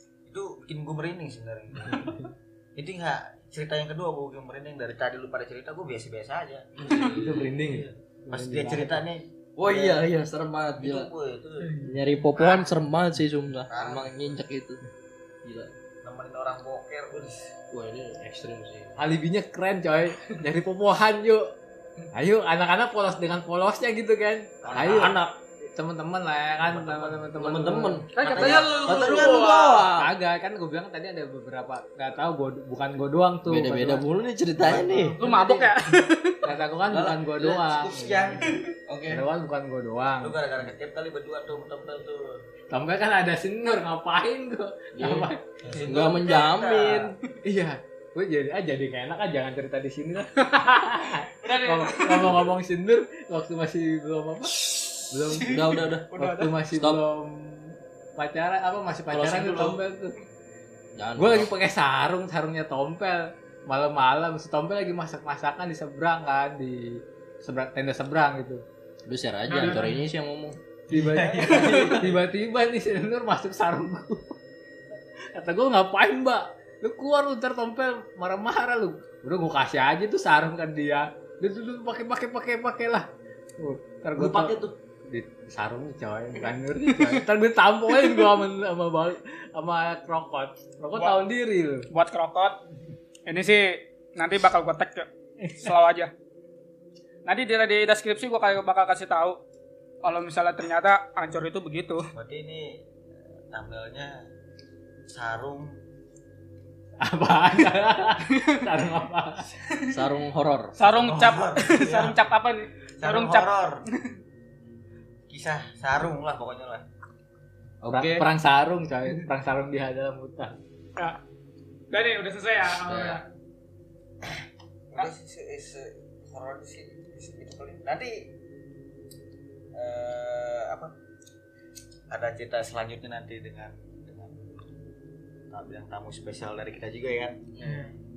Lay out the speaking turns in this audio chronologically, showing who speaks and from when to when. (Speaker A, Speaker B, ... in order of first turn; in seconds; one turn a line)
Speaker A: 0.3-10.0
Speaker B: 1.9-2.2
Speaker C: 6.8-7.7
Speaker B: 6.9-9.0
Speaker C: 9.6-11.1
Speaker A: 10.8-11.8
Speaker D: 11.6-11.9
Speaker C: 11.8-14.8
Speaker A: 12.4-12.8
Speaker A: 13.7-14.1
Speaker C: 15.4-15.7
Speaker A: 16.0-17.5
Speaker C: 17.7-19.0
Speaker B: 19.0-21.4
Speaker B: 22.1-28.1
Speaker A: 24.6-25.1
Speaker C: 24.8-25.3
Speaker C: 26.6-30.1
Speaker D: 28.1-29.7
Speaker A: 28.2-29.8
Speaker B: 29.9-34.0
Speaker C: 33.5-35.2
Speaker B: 34.6-35.7
Speaker D: 35.2-36.4
Speaker B: 36.4-38.5
Speaker C: 36.9-39.2
Speaker B: 39.1-40.4
Speaker A: 40.2-42.4
Speaker B: 42.7-45.5
Speaker C: 45.0-47.2
Speaker A: 45.6-47.1
Speaker D: 45.9-46.9
Speaker B: 47.4-60.2
Speaker D: 51.4-52.5
Speaker C: 54.6-56.1
Speaker D: 55.3-56.5
Speaker C: 56.7-57.0
Speaker C: 59.1-59.8
Speaker C: 61.0-61.5
Speaker B: 61.2-68.6
Speaker C: 69.1-70.6
Speaker D: 69.5-70.0
Speaker B: 70.9-74.3
Speaker A: 70.9-72.2
Speaker D: 71.4-71.9
Speaker C: 71.4-72.0
Speaker B: 75.3-83.1
Speaker B: 83.6-84.6
Speaker C: 84.2-84.7
Speaker B: 85.1-91.9
Speaker D: 91.9-92.6
Speaker D: 93.3-96.1
Speaker B: 95.4-95.7
Speaker D: 97.3-99.4
Speaker D: 100.0-102.1
Speaker A: 102.2-102.8
Speaker A: 103.5-104.2
Speaker A: 105.1-105.7
Speaker B: 107.0-109.5
Speaker D: 108.3-108.6
Speaker C: 109.9-110.8
Speaker D: 110.8-114.1
Speaker A: 110.9-112.2
Speaker A: 113.0-113.8
Speaker A: 115.3-116.8
Speaker C: 117.8-118.3
Speaker B: 117.9-120.6
Speaker D: 121.9-123.3
Speaker C: 122.9-123.2
Speaker A: 124.2-128.2
Speaker A: 129.8-130.9
Speaker A: 132.1-134.3
Speaker A: 135.5-137.4
Speaker C: 137.6-137.9
Speaker D: 137.6-137.9